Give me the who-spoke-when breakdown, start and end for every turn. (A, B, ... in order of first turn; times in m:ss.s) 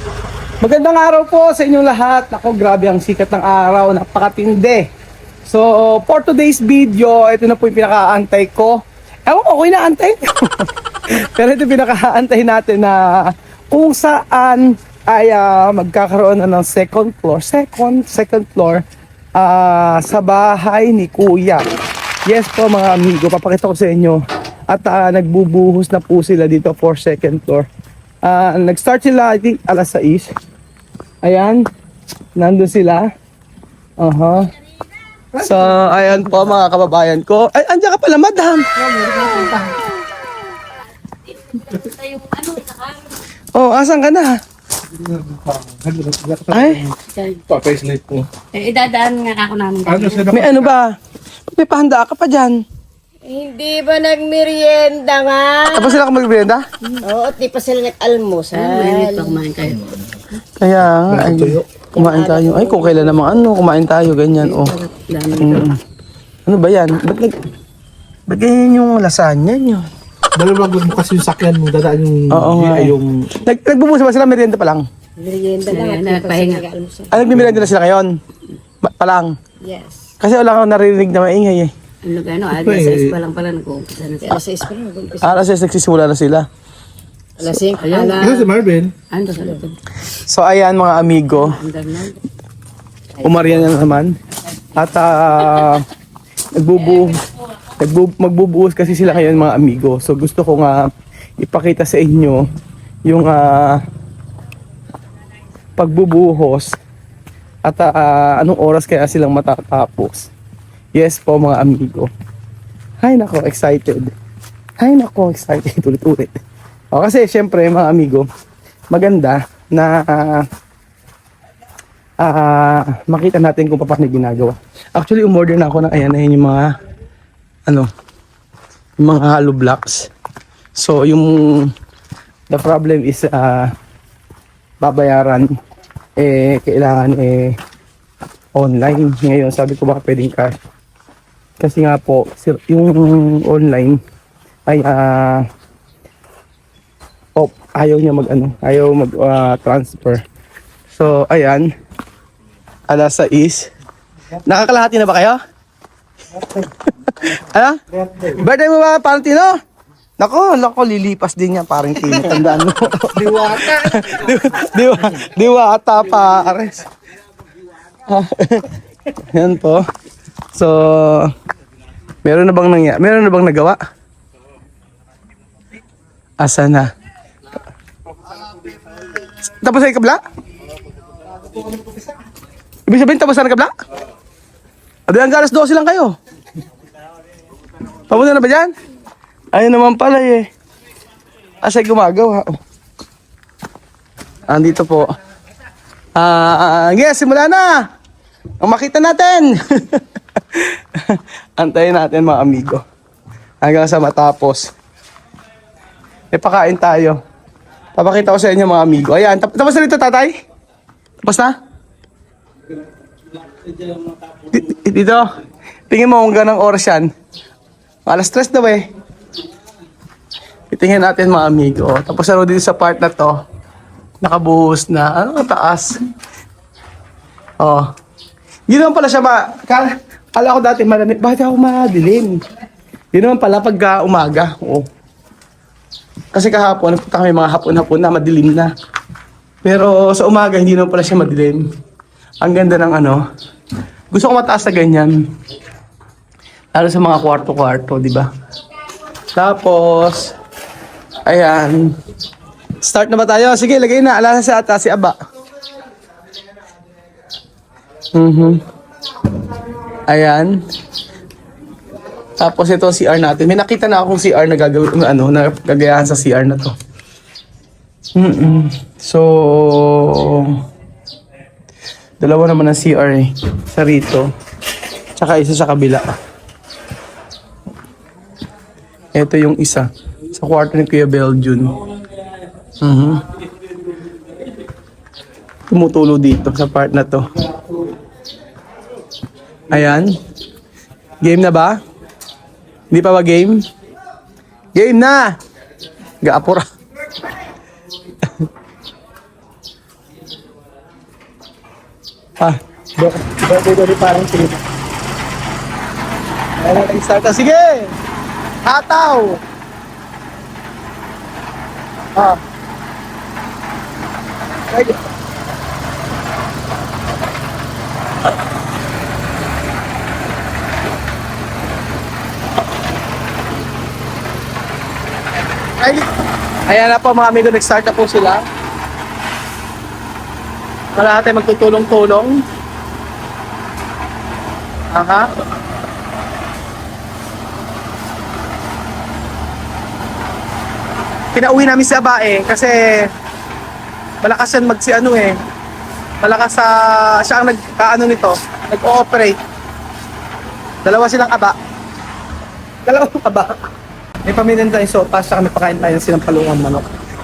0:00.6-0:04.8 A
0:05.4-0:13.1 A
0:13.7-0:18.8 A
0:19.4-0:21.7 A
0:22.3-0:27.7 A
0:28.2-0:30.3 A
0:31.2-0:31.6 A
0:32.4-0:33.1 A
0:34.0-0:34.4 A
0:35.3-0:38.6 A
0:41.7-0:42.8 B
0:43.5-0:44.3 A
0:45.3-0:46.6 C
0:46.5-0:46.9 A
0:47.2-0:47.4 B
0:47.5-0:48.3 C
0:48.5-0:50.4 B
0:49.9-0:50.3 C
0:50.3-0:50.9 A
0:51.5-0:52.6 A
0:53.2-0:56.0 D
0:55.7-0:56.6 A
0:57.0-0:59.4 D
0:58.5-1:00.4 B
1:00.6-1:04.8 A
1:01.2-1:01.6 C
1:01.8-1:03.3 D
1:04.4-1:05.7 B
1:05.4-1:05.8 A
1:06.4-1:07.4 A
1:08.3-1:09.8 A
1:10.4-1:13.1 C
1:12.3-1:14.8 A
1:15.2-1:17.1 D
1:15.7-1:16.7 B
1:17.1-1:18.1 A
1:18.8-1:19.3 A
1:19.6-1:20.0 D
1:20.2-1:21.7 A
1:22.0-1:24.5 B
1:22.6-1:23.1 C
1:24.2-1:25.4 D
1:25.2-1:26.4 A
1:27.4-1:28.3 D
1:27.7-1:29.8 B
1:28.2-1:28.9 C
1:30.2-1:31.6 A
1:31.4-1:32.2 B
1:33.2-1:34.1 A
1:34.7-1:35.8 A
1:36.5-1:37.2 A
1:37.8-1:40.8 A
1:41.4-1:42.4 A
1:43.1-1:43.8 A
1:45.8-1:46.7 A
1:47.6-1:50.3 A
1:50.9-1:52.1 A
1:53.0-1:54.1 A
1:54.8-1:56.3 A
1:56.9-1:58.3 A
1:58.9-2:00.4 A
2:02.2-2:06.7 A
2:09.0-2:10.1 A
2:10.8-2:11.7 A
2:12.5-2:13.7 A
2:14.8-2:15.5 A
2:16.2-2:17.5 A
2:18.5-2:20.6 A
2:21.6-2:24.0 A
2:24.7-2:25.4 A
2:27.4-2:30.2 A
2:30.9-2:31.7 A
2:32.9-2:33.7 A
2:34.4-2:35.4 A
2:36.6-2:39.5 A
2:40.2-2:46.8 A
2:48.1-2:48.6 A
2:49.3-2:49.8 A
2:50.5-2:51.3 A
2:52.2-2:53.8 A
2:56.4-2:56.9 A
2:59.4-3:00.2 A
3:02.9-3:03.7 A
3:05.1-3:06.1 A
3:08.1-3:08.7 A
3:09.5-3:10.5 A
3:11.6-3:12.5 A
3:14.5-3:15.0 A
3:16.2-3:17.8 A
3:18.6-3:20.0 A
3:20.5-3:22.8 A
3:23.6-3:24.7 A
3:26.3-3:27.2 A
3:27.9-3:30.3 A
3:31.2-3:31.5 A
3:34.5-3:35.2 A
3:35.9-3:37.1 A
3:38.1-3:38.8 A
3:40.7-3:43.4 A
3:44.2-3:45.9 A
3:47.6-3:47.8 A
3:48.7-3:52.4 A
3:53.1-3:54.8 A
3:56.3-3:58.7 A
3:59.6-4:01.6 A
4:02.4-4:03.2 A
4:04.1-4:05.1 A
4:06.7-4:08.3 A
4:09.3-4:10.3 A
4:11.2-4:11.9 A
4:12.8-4:15.2 A
4:18.1-4:18.6 A
4:20.1-4:20.6 A
4:22.4-4:26.7 A
4:28.1-4:30.6 A
4:32.2-4:34.3 A
4:35.2-4:36.1 A
4:39.1-4:41.7 A
4:42.8-4:43.2 A
4:45.7-4:47.2 A
4:49.7-4:50.2 A
4:51.2-4:51.8 A
4:52.9-4:53.6 A
4:54.7-4:55.3 A
4:56.2-4:56.6 A
5:02.4-5:04.6 A
5:06.6-5:07.9 A
5:08.6-5:09.4 A
5:14.7-5:15.0 A
5:25.8-5:26.0 A
5:26.7-5:28.4 A
5:31.0-5:32.4 A
5:34.9-5:35.3 A
5:41.3-5:43.1 A
5:44.2-5:45.4 A
5:46.2-5:49.4 A
5:50.8-5:51.5 A
5:52.8-5:53.6 A
5:54.2-5:56.9 A